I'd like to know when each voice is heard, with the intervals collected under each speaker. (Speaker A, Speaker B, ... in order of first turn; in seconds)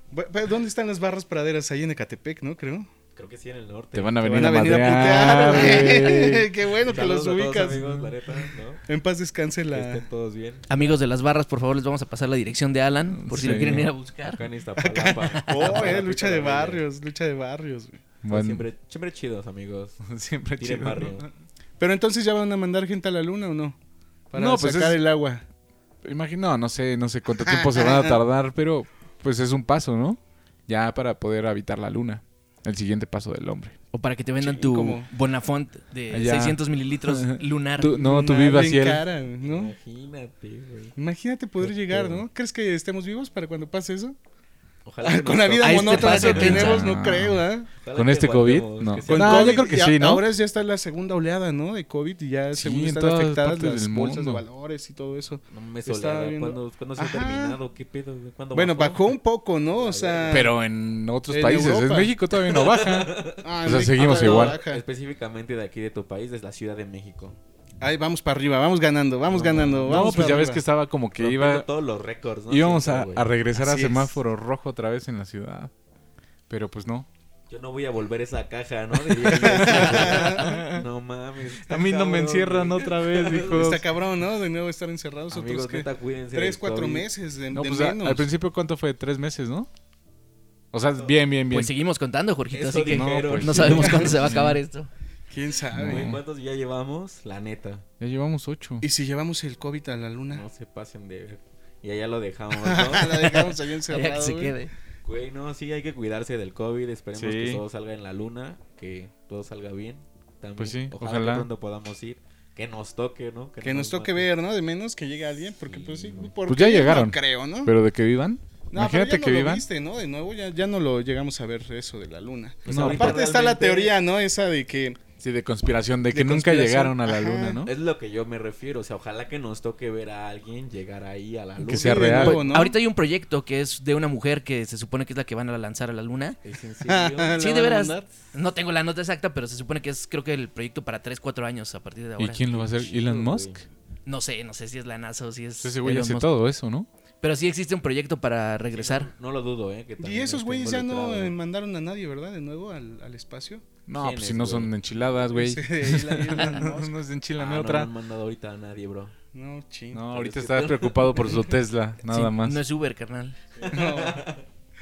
Speaker A: 0.1-2.9, 4.2-7.9, 8.8-10.0, 14.8-18.0, 21.8-23.8, 24.3-25.4, 27.4-28.2, 34.4-35.1, 38.0-39.7, 41.0-44.1, 45.0-47.7, 49.1-57.6, 58.5-60.5, 61.3-62.1, 63.4-64.8, 67.8-70.6, 73.5-74.2, 79.2-80.5, 83.4-88.2, 95.3-96.2, 98.8-100.4, 102.6-104.5, 113.6-117.7, 118.7-125.0, 126.1-127.6, 131.7-132.8, 136.8-138.1, 150.0-153.6, 155.3-156.9, 159.3-160.0, 163.7-164.3
Speaker B: 3.1-6.1, 6.8-8.8, 9.7-10.9, 14.3-16.8, 18.3-20.0, 20.6-21.3, 39.4-40.9, 41.9-42.2, 44.8-46.8, 47.8-49.7, 55.5-59.1, 59.7-60.5, 62.4-63.4, 63.9-67.4, 69.3-70.3, 71.2-73.3, 77.5-83.7, 85.3-87.1, 92.5-94.4, 95.8-97.8, 100.3-103.4, 105.0-114.2, 115.6-116.3, 122.6-123.9, 127.6-132.3, 136.4-137.4, 142.6-143.6, 148.7-151.3, 153.9-154.7, 157.4-159.1, 160.1-161.5, 163.6-164.4
Speaker C: 3.9-6.5, 7.7-8.1, 13.1-13.9, 18.2-18.7, 20.0-21.3, 24.4-25.0, 26.0-33.7, 36.1-39.0, 46.1-50.2, 52.5-54.4, 60.3-64.6, 69.8-71.7, 72.5-75.7, 76.5-77.1, 79.2-80.8, 81.5-83.8, 87.5-89.7, 90.7-91.7, 92.8-94.6, 95.7-96.2, 98.0-98.8, 107.1-107.6, 110.6-111.5, 116.5-119.6, 122.7-123.2, 125.2-127.7, 131.6-132.6, 142.2-143.6, 145.6-146.9, 153.9-157.9, 159.9-162.6
Speaker D: 10.7-14.4, 33.9-38.0, 45.6-46.9, 91.5-94.9, 103.9-104.7, 132.2-136.4, 137.4-142.6, 144.1-146.3, 147.2-149.1, 162.0-163.4